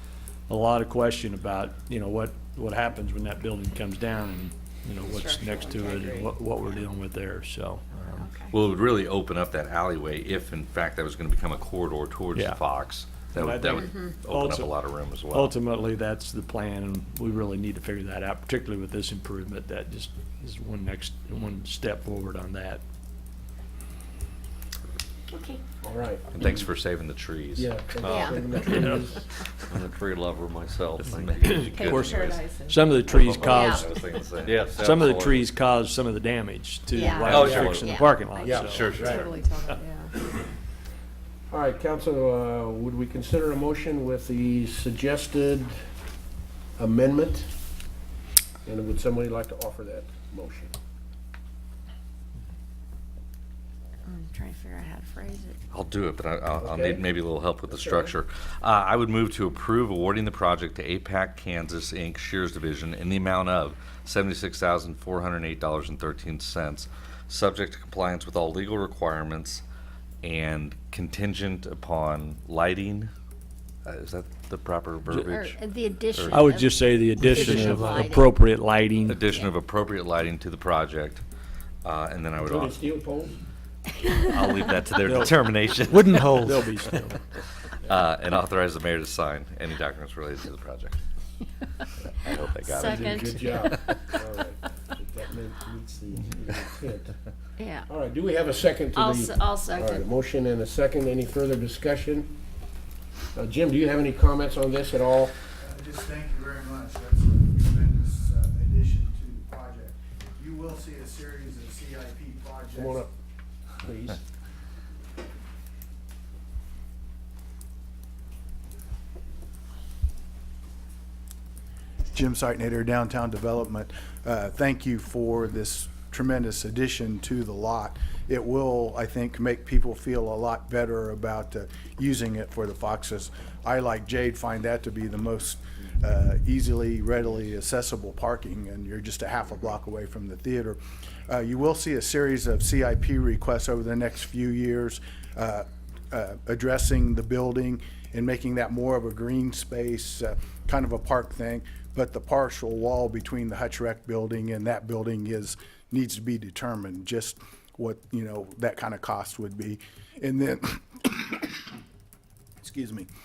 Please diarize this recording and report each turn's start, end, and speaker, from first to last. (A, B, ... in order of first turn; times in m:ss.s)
0:00.5-0:08.3 A
0:05.0-0:06.4 B
0:08.1-0:08.5 B
0:08.5-0:15.5 C
0:12.3-0:12.6 A
0:13.3-0:22.8 A
0:13.8-0:14.2 B
0:25.3-0:25.8 B
0:25.8-0:26.6 D
0:26.3-0:28.6 C
0:27.6-0:29.3 D
0:28.0-0:28.4 B
0:28.0-0:28.6 E
0:28.8-0:29.1 A
0:29.7-0:31.8 E
0:31.0-0:35.1 C
0:31.4-0:34.0 A
0:31.7-0:33.8 B
0:33.1-0:33.7 E
0:34.4-0:35.5 E
0:34.8-0:40.4 A
0:36.9-0:40.1 B
0:37.2-0:37.9 E
0:37.2-0:37.8 C
0:38.4-0:39.3 D
0:38.5-0:39.4 C
0:41.5-0:45.7 D
0:46.8-0:47.5 D
0:48.6-0:50.7 D
0:54.0-0:55.6 B
0:55.7-1:09.6 C
0:56.6-0:57.1 D
0:57.7-0:58.1 D
1:10.2-1:13.1 C
1:13.8-1:15.6 C
1:15.1-1:15.4 A
1:15.3-1:18.4 B
1:16.1-1:16.6 C
1:16.3-1:19.3 A
1:19.0-1:21.2 C
1:21.8-1:22.8 C
1:22.4-1:23.3 D
1:24.0-1:24.7 B
1:24.3-1:26.9 C
1:25.0-1:25.3 A
1:25.8-1:27.2 A
1:27.8-1:31.0 C
1:32.1-1:34.0 C
1:32.6-1:33.8 B
1:32.8-1:37.2 D
1:37.6-1:37.9 B
1:37.9-1:42.3 D
1:38.9-1:40.0 B
1:43.3-1:45.4 D
1:45.5-1:53.0 F
1:52.8-1:53.1 D
1:53.8-1:54.2 D
2:02.1-2:41.5 F
2:42.6-2:43.1 F